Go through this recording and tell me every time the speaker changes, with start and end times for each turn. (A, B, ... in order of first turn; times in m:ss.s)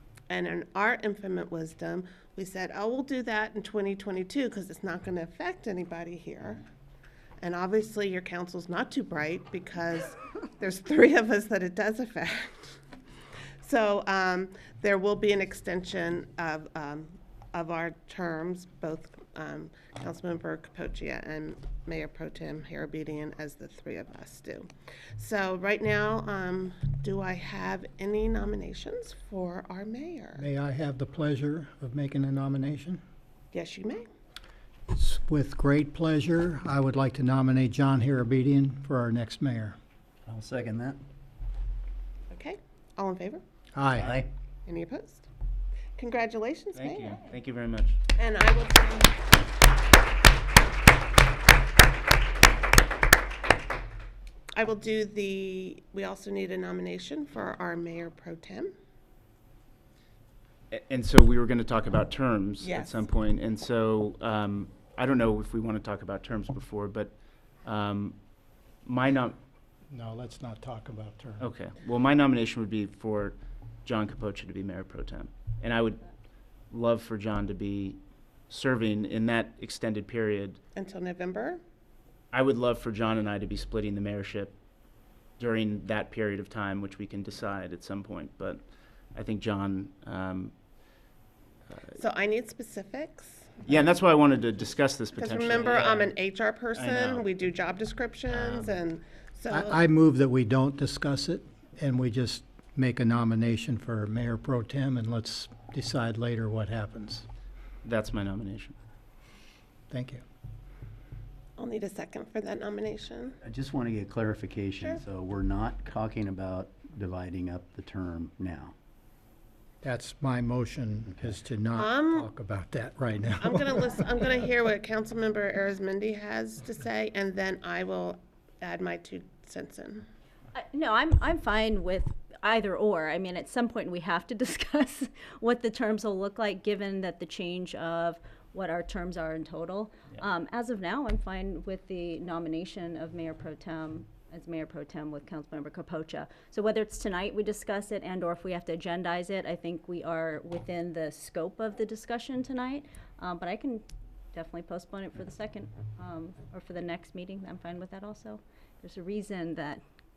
0:00.3-0:06.6 A
0:07.4-0:12.8 A
0:13.6-0:30.4 A
0:30.4-0:33.0 B
0:33.5-0:34.1 A
0:34.9-0:39.8 B
0:40.3-0:41.0 C
0:42.3-0:43.4 A
0:43.7-0:44.2 B
0:44.0-0:44.3 C
0:44.6-0:45.2 A
0:46.0-0:47.2 A
0:46.7-0:48.0 D
0:48.2-0:49.2 A
0:54.5-0:58.7 A
1:00.7-1:08.2 D
1:02.6-1:03.0 A
1:08.8-1:09.4 D
1:09.9-1:11.4 B
1:11.4-1:16.0 D
1:16.7-1:20.6 D
1:20.8-1:21.6 A
1:22.3-1:24.5 D
1:25.4-1:28.6 D
1:29.1-1:30.5 D
1:31.7-1:32.0 D
1:32.0-1:33.6 A
1:33.6-1:36.1 D
1:35.1-1:39.8 A
1:36.7-1:37.3 D
1:38.3-1:38.7 D
1:39.5-1:47.2 B
1:47.8-1:48.7 D
1:49.9-1:50.2 B
1:51.6-1:53.4 A
1:53.4-1:58.7 C
1:59.8-2:04.1 B
2:01.8-2:02.3 A
2:03.4-2:10.0 A
2:10.5-2:39.8 E